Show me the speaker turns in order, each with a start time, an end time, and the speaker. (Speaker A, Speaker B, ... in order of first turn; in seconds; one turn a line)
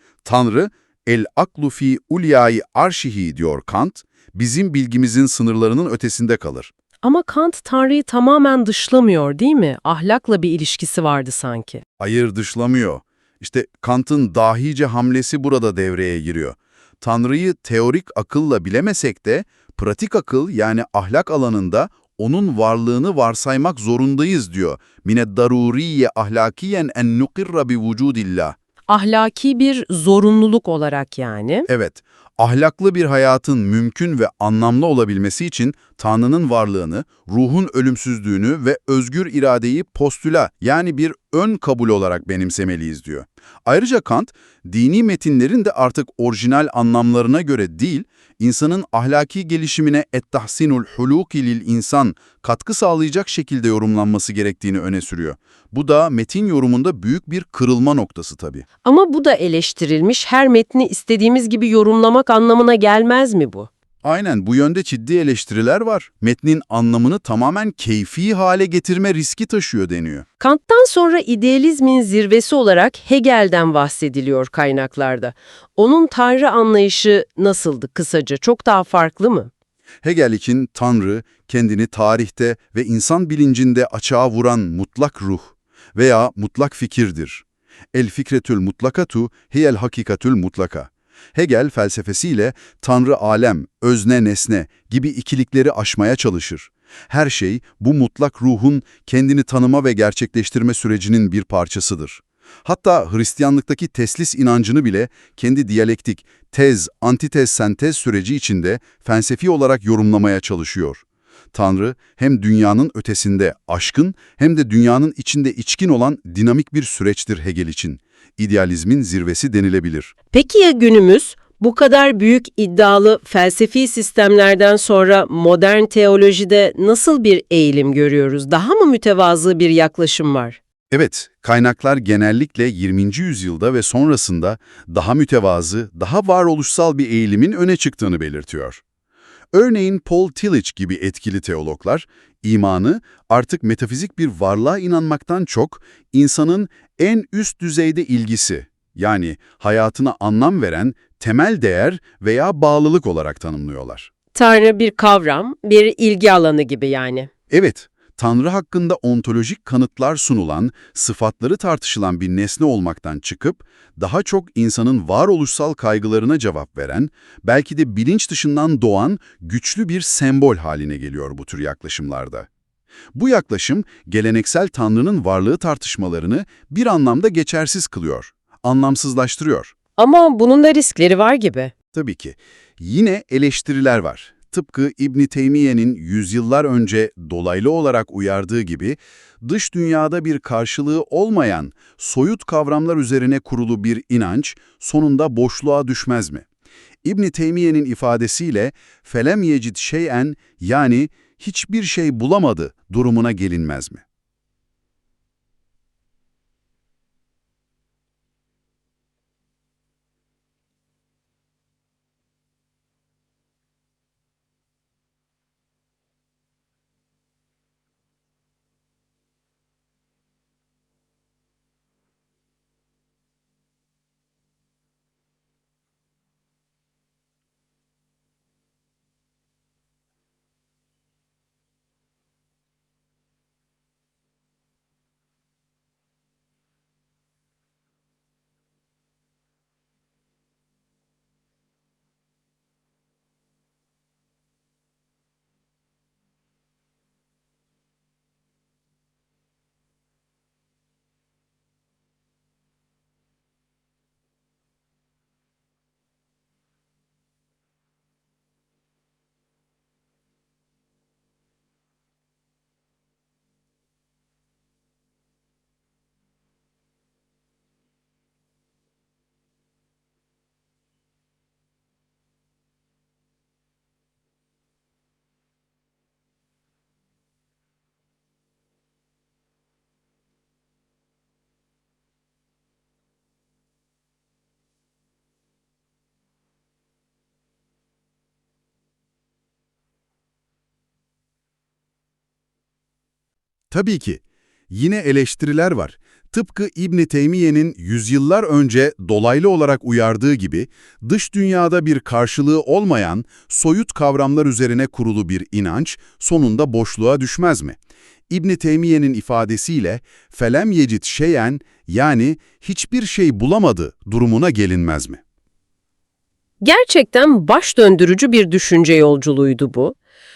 Speaker A: 0.2-6.7
Speaker B: 7.0-11.8
Speaker A: 12.0-28.6
Speaker B: 28.9-31.7
Speaker A: 31.7-58.6
Speaker B: 58.8-63.7
Speaker A: 64.0-70.2
Speaker B: 70.4-79.5
Speaker A: 80.0-120.1
Speaker B: 120.3-130.6
Speaker A: 130.9-138.8
Speaker A: 139.5-154.1
Speaker B: 154.3-157.3
Speaker A: 157.5-172.5
Speaker A: 173.1-179.7
Speaker B: 180.0-181.7
Speaker A: 181.9-196.4
Speaker A: 197.0-204.0
Speaker A: 293.7-307.8
Speaker A: 308.3-315.2
Speaker B: 316.6-319.9